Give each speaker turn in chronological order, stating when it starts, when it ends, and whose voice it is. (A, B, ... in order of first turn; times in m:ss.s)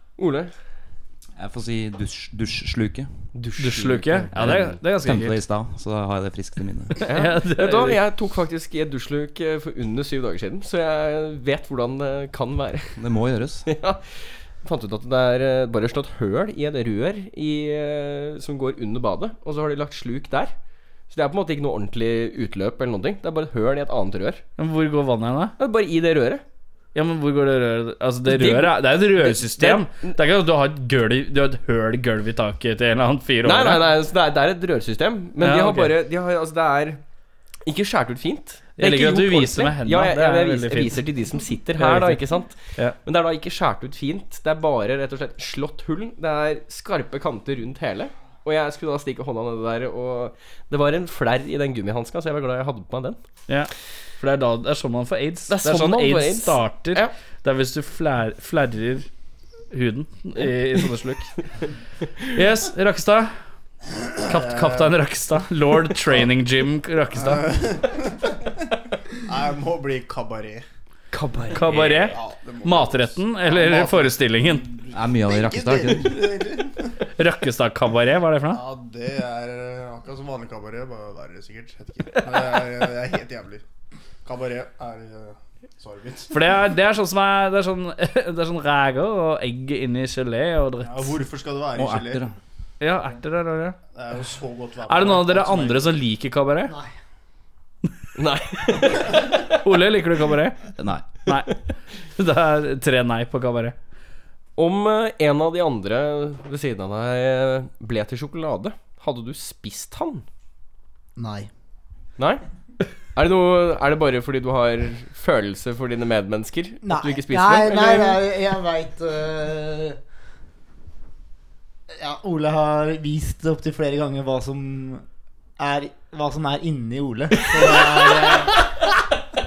0:00.2-0:00.5 A
0:01.4-0:03.1 B
0:03.4-0:04.8 A
0:03.6-0:05.4 C
0:04.3-0:07.0 B
0:07.0-0:08.0 C
0:07.1-0:13.1 A
0:13.0-0:13.7 B
0:13.7-0:20.6 A
0:21.1-0:24.4 A
0:24.6-0:25.6 C
0:25.6-0:26.4 A
0:26.9-0:33.9 C
0:28.2-0:30.2 A
0:33.4-0:37.0 A
0:35.4-0:35.9 C
0:37.6-0:53.2 A
0:38.8-0:41.0 C
0:41.8-0:42.2 C
0:53.5-0:59.1 C
0:55.5-0:57.1 A
0:59.7-1:01.3 C
1:02.2-1:03.3 C
1:04.0-1:04.9 D
1:04.3-1:07.5 C
1:07.2-1:08.6 D
1:09.2-1:10.6 D
1:11.1-1:11.8 A
1:11.5-1:14.7 C
1:11.6-1:17.0 D
1:14.9-1:16.3 B
1:17.2-1:18.6 C
1:18.5-1:23.6 D
1:24.2-1:26.4 D
1:26.3-1:31.2 C
1:30.8-1:32.3 D
1:31.7-1:32.4 B
1:32.8-1:33.8 C
1:33.9-1:35.9 D
1:34.9-1:36.8 C
1:36.7-1:36.9 E
1:38.2-1:39.4 A
1:39.6-1:41.6 C
1:40.8-1:41.1 B
1:42.2-1:43.8 C
1:44.6-1:50.2 A
1:51.2-1:51.5 E
1:53.1-1:58.2 A
1:56.8-2:00.0 E
2:01.9-2:05.0 E
2:05.6-2:08.7 E